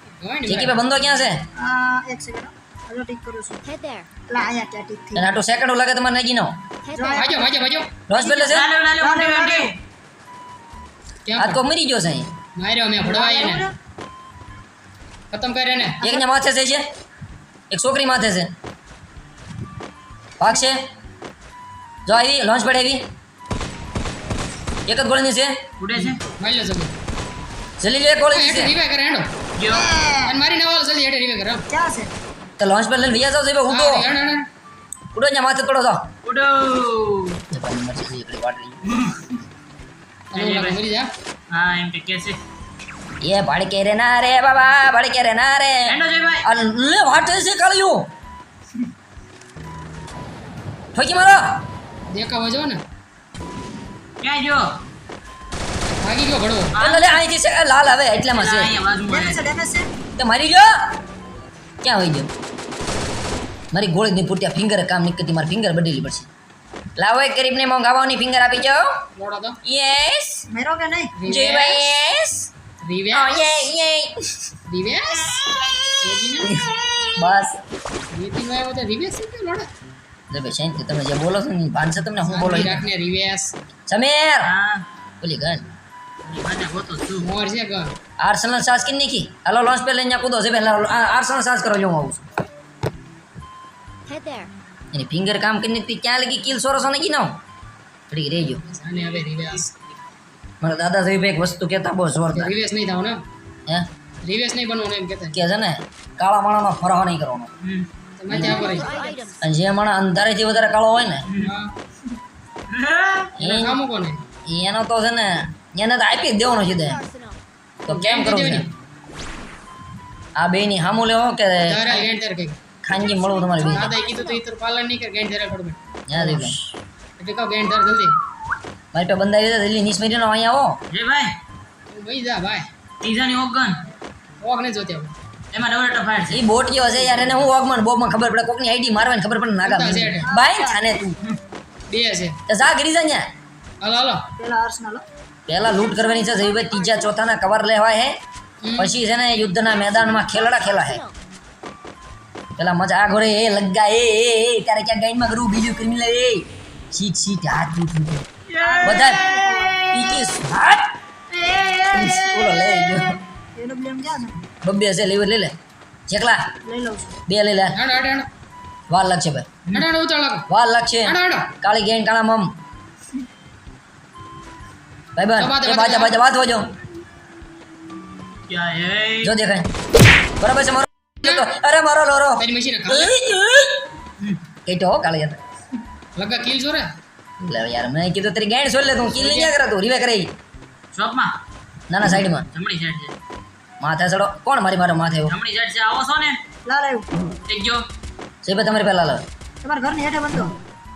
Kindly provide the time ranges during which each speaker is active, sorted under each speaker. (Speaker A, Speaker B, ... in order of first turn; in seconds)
Speaker A: 0.2-0.8, 7.1-7.9, 11.3-11.6, 12.6-13.7, 15.3-16.0, 26.0-26.9, 28.3-29.3, 30.3-31.7, 33.7-34.5, 40.3-41.1, 52.1-52.8, 56.0-56.7, 69.2-69.6, 71.2-71.9, 72.8-73.3, 74.7-75.4, 76.0-76.7, 78.1-79.7, 82.3-83.5, 87.2-88.0, 98.7-99.7, 102.3-103.2, 104.2-105.4, 108.2-109.2, 111.4-111.7, 113.4-114.2, 117.9-118.7, 121.7-122.6, 123.6-126.5, 127.2-128.2, 131.9-132.7, 134.4-135.2, 137.0-137.3, 139.6-140.3, 141.9-142.4, 143.8-144.2, 148.6-149.0, 167.7-168.3, 169.7-170.5, 171.0-171.5, 175.4-176.2, 182.4-183.1, 186.2-186.9, 189.1-189.6
Speaker B: 0.5-1.4, 5.2-6.6, 8.1-8.7, 11.4-12.3, 16.0-16.9, 17.7-18.5, 20.4-20.8, 22.1-23.0, 24.9-25.6, 27.8-28.7, 32.6-34.1, 35.1-36.1, 37.5-38.8, 43.2-48.1, 51.0-51.5, 56.8-58.7, 60.2-60.7, 61.8-62.3, 63.7-66.3, 67.0-69.0, 69.7-70.5, 71.2-72.5, 73.1-74.2, 76.4-77.6, 80.3-82.9, 83.9-84.5, 85.2-85.7, 88.2-92.3, 94.9-97.4, 98.1-98.6, 100.6-102.5, 105.3-107.5, 108.3-108.8, 109.4-111.3, 113.4-113.8, 114.5-117.0, 117.9-118.7, 120.4-122.0, 122.8-124.0, 126.1-126.6, 128.9-130.8, 136.3-141.2, 142.5-143.3, 145.5-148.2, 148.8-151.0, 152.6-158.3, 158.8-159.3, 159.9-160.9, 161.9-163.2, 164.6-165.5, 166.1-166.5, 167.3-167.8, 168.9-169.6, 170.5-172.5, 175.2-176.7, 179.2-179.7, 180.4-183.8, 184.7-185.4, 187.4-190.3, 191.9-192.5, 193.8-195.3, 198.4-199.2
Speaker C: 1.6-3.6, 4.3-5.3, 7.0-7.5, 8.4-9.8, 13.0-13.7, 29.7-30.3, 31.7-32.1, 59.1-59.9, 70.5-71.1, 140.3-140.8, 144.4-145.1, 158.6-159.8, 163.6-164.4, 166.7-167.1, 196.7-197.1, 199.6-200.6
Speaker D: 3.6-4.1, 6.8-7.3, 94.1-94.5, 108.3-109.5, 116.4-117.4, 123.0-124.4, 145.9-147.0, 150.0-151.2
Speaker E: 8.3-9.7, 25.8-26.2, 29.6-29.9, 36.2-37.4, 38.9-39.2, 40.4-40.8, 41.5-42.4, 45.9-46.5, 54.2-54.7, 56.7-57.2, 58.4-59.4, 84.4-84.8, 86.2-87.3, 98.9-99.7, 107.6-107.9, 111.3-111.5, 112.7-113.3, 130.9-131.3, 133.0-133.8, 135.5-136.4, 158.5-160.3, 161.3-162.5, 178.5-179.3, 190.9-191.3, 192.5-193.1, 195.3-196.4, 197.5-197.8